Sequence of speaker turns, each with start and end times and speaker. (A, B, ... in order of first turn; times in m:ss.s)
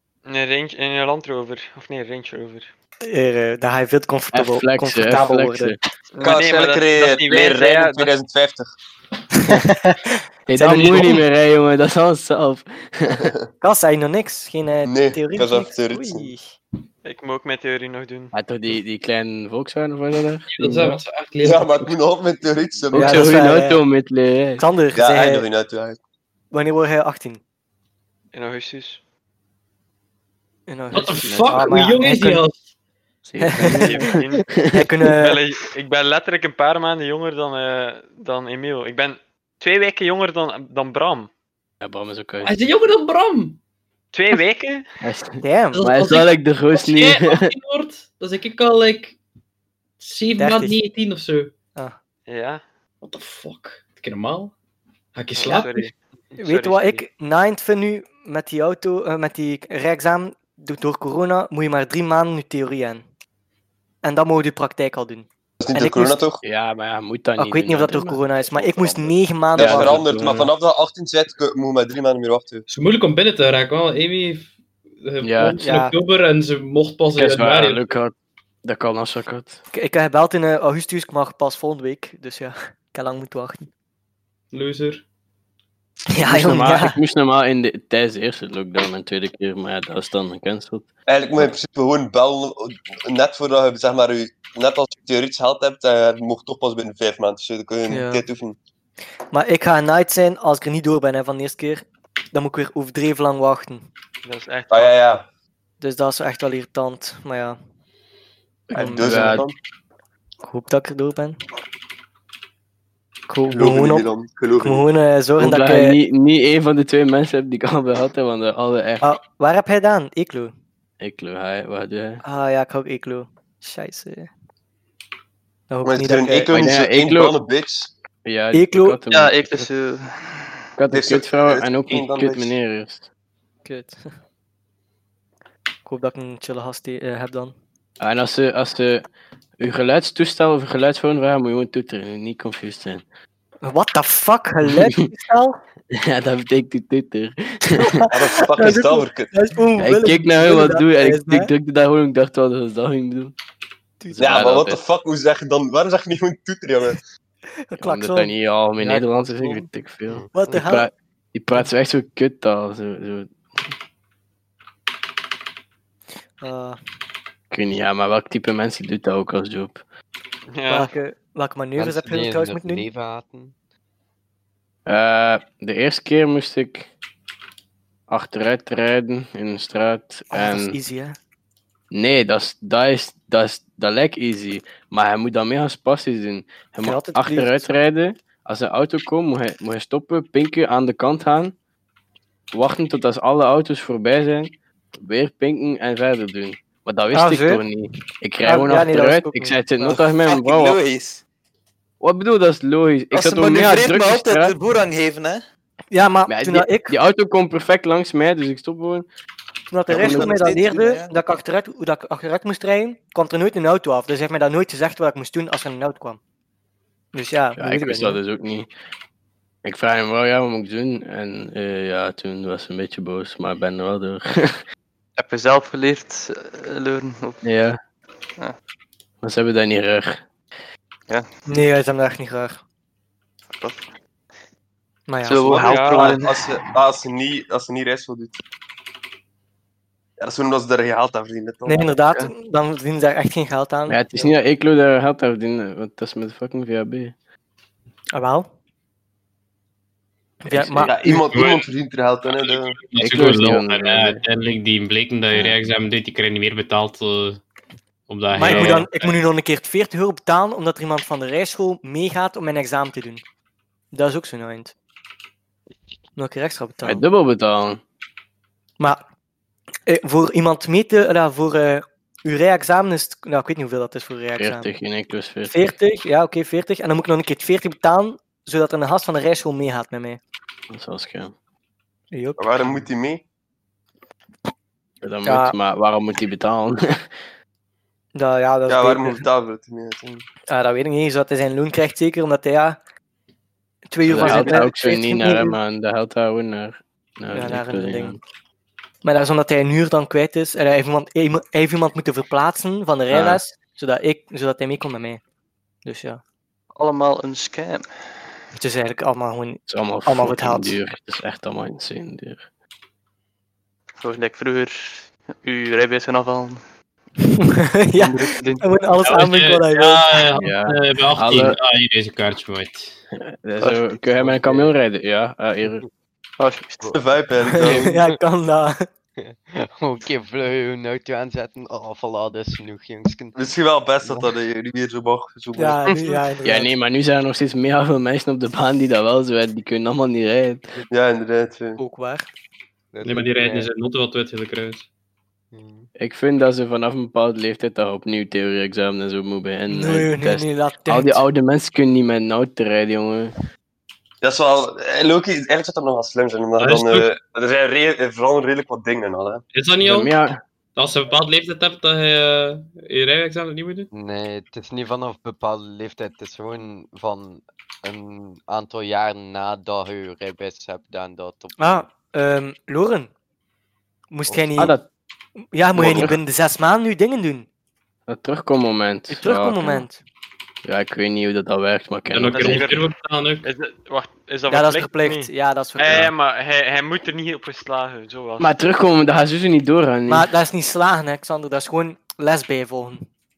0:00.3-0:02.7 A
0:03.0-0:05.8 B
0:04.3-0:05.8 C
0:06.1-0:08.1 A
0:06.2-0:08.7 D
0:09.3-0:11.2 B
0:10.5-0:13.3 C
0:13.6-0:16.6 B
0:14.8-0:16.3 D
0:17.0-0:18.3 A
0:18.3-0:21.0 C
0:20.5-0:21.9 E
0:21.4-0:23.4 D
0:22.9-0:23.8 B
0:22.9-0:24.6 C
0:24.6-0:25.5 B
0:25.0-0:26.0 D
0:26.5-0:27.4 B
0:28.3-0:29.0 A
0:30.7-0:32.4 B
0:30.9-0:32.6 E
0:31.2-0:31.6 C
0:33.3-0:34.7 C
0:33.4-0:34.1 B
0:33.6-0:34.5 A
0:34.7-0:35.4 B
0:35.1-0:41.3 A
0:41.8-0:42.6 C
0:42.4-0:43.6 E
0:44.1-0:44.8 A
0:45.0-0:47.5 C
0:45.4-0:45.8 B
0:45.7-0:49.2 E
0:50.0-0:51.5 E
0:50.4-0:50.8 B
0:52.3-0:52.6 A
0:53.0-0:54.5 E
0:55.2-0:55.9 E
0:55.4-0:57.0 A
0:56.4-1:03.0 B
1:04.0-1:06.2 B
1:05.6-1:06.4 D
1:06.4-1:10.5 C
1:07.4-1:10.0 B
1:09.6-1:12.7 D
1:12.7-1:17.9 E
1:15.2-1:15.6 C
1:15.6-1:16.0 B
1:17.2-1:19.6 C
1:19.7-1:23.7 B
1:24.5-1:25.0 E
1:26.1-1:27.0 B
1:26.2-1:31.5 C
1:31.1-1:38.6 D
1:37.9-1:38.2 B
1:39.3-1:43.9 B
1:44.2-1:45.0 A
1:44.7-1:45.3 D
1:45.8-1:47.6 B
1:48.7-1:49.4 B
1:48.7-1:49.6 D
1:49.0-1:49.5 C
1:50.4-1:51.4 B
1:53.3-1:54.1 B
1:53.5-1:54.8 D
1:54.6-1:56.0 B
1:55.4-1:59.1 C
1:59.0-2:00.5 B
2:01.0-2:02.2 C
2:02.2-2:04.3 B
2:05.7-2:06.5 B
2:05.8-2:07.9 D
2:06.5-2:07.4 C
2:08.2-2:09.7 C
2:08.5-2:09.0 B
2:09.1-2:10.6 F
2:10.8-2:13.1 C
2:10.9-2:12.5 D
2:13.6-2:14.1 B
2:15.8-2:17.6 B
2:18.0-2:19.1 C
2:19.6-2:23.0 C
2:23.6-2:25.6 B
2:25.9-2:28.0 C
2:27.8-2:31.5 B
2:28.1-2:29.3 D
2:29.8-2:33.3 C
2:34.0-2:34.5 B
2:34.1-2:34.8 C
2:34.2-2:37.0 D
2:37.6-2:38.3 B
2:37.8-2:43.7 C
2:40.1-2:40.6 G
2:40.3-2:40.9 B
2:46.4-2:46.8 B
2:47.5-2:49.8 C
2:50.5-2:50.9 A
2:50.7-2:52.8 B
2:51.8-2:53.5 G
2:54.9-2:56.9 C
2:58.1-3:00.8 C
3:00.3-3:01.2 B
3:01.9-3:11.6 C
3:06.8-3:07.8 B
3:12.5-3:20.8 C
3:17.1-3:17.6 B
3:18.4-3:20.0 B
3:19.8-3:21.2 H
3:22.0-3:24.6 C
3:23.1-3:25.4 H
3:25.9-3:27.0 B
3:26.3-3:29.1 C
3:29.7-3:36.2 B
3:29.9-3:30.5 C
3:29.9-3:31.2 H
3:37.1-3:38.2 B
3:37.6-3:38.7 C
3:39.6-3:44.6 C
3:45.2-3:47.4 F
3:47.4-3:47.8 C
3:49.2-3:50.2 C
3:51.5-3:52.6 B
3:53.6-3:53.9 F
3:55.1-3:55.8 B
3:55.2-3:56.6 F
3:55.5-3:58.4 D
3:55.5-3:56.2 A
4:00.2-4:02.0 D
4:01.7-4:04.3 B
4:03.9-4:07.1 C
4:08.1-4:08.5 B
4:10.4-4:10.9 B
4:10.5-4:10.9 C
4:10.8-4:12.8 D
4:11.0-4:11.7 E
4:12.3-4:17.4 E
4:13.0-4:14.2 C
4:18.1-4:19.1 E
4:18.3-4:23.2 B
4:18.4-4:18.8 C
4:23.9-4:24.7 B
4:26.2-4:27.0 B
4:26.8-4:27.8 C
4:29.9-4:34.7 B
4:34.4-4:35.8 C
4:35.5-4:40.2 B
4:40.7-4:41.3 C
4:42.1-4:42.5 B
4:42.4-4:43.2 D
4:45.0-4:47.1 C
4:45.2-4:45.6 B
4:48.2-4:49.3 B
4:48.7-4:50.3 D
4:50.5-4:52.8 B
4:53.9-4:55.6 B
4:54.1-4:58.2 C
4:54.2-4:54.5 D
4:57.3-4:58.2 B
4:59.0-5:05.2 B
5:03.1-5:03.4 C
5:05.8-5:06.2 B
5:06.7-5:07.9 F
5:08.6-5:10.8 B
5:09.7-5:12.4 C
5:14.0-5:16.6 F
5:17.2-5:20.2 B
5:18.0-5:18.7 F
5:19.0-5:23.0 E
5:20.4-5:21.6 C
5:23.2-5:25.8 C
5:24.2-5:24.7 G
5:26.4-5:27.0 F
5:26.9-5:28.0 D
5:27.5-5:28.9 B
5:29.2-5:33.4 G
5:33.4-5:35.8 D
5:34.0-5:34.3 G
5:35.6-5:36.7 B
5:36.4-5:40.6 C
5:40.9-5:41.8 D
5:41.8-5:42.3 B
5:42.9-5:43.7 G
5:43.0-5:44.9 E
5:45.5-5:45.9 G
5:46.0-5:53.3 C
5:49.7-5:51.2 B
5:54.2-5:59.4 D
5:56.6-5:57.1 E
5:59.5-6:00.1 E
5:59.8-6:00.4 C
6:00.8-6:03.9 E
6:03.9-6:11.9 G
6:11.6-6:13.1 B
6:14.1-6:14.8 B
6:14.3-6:14.6 G
6:14.6-6:14.9 C
6:15.5-6:17.5 B
6:15.8-6:16.2 C
6:18.1-6:19.9 C
6:19.1-6:20.0 B
6:20.6-6:22.7 C
6:22.1-6:23.5 E
6:22.3-6:22.8 A
6:23.4-6:28.5 A
6:24.5-6:26.1 B
6:28.4-6:30.3 C
6:30.1-6:33.1 B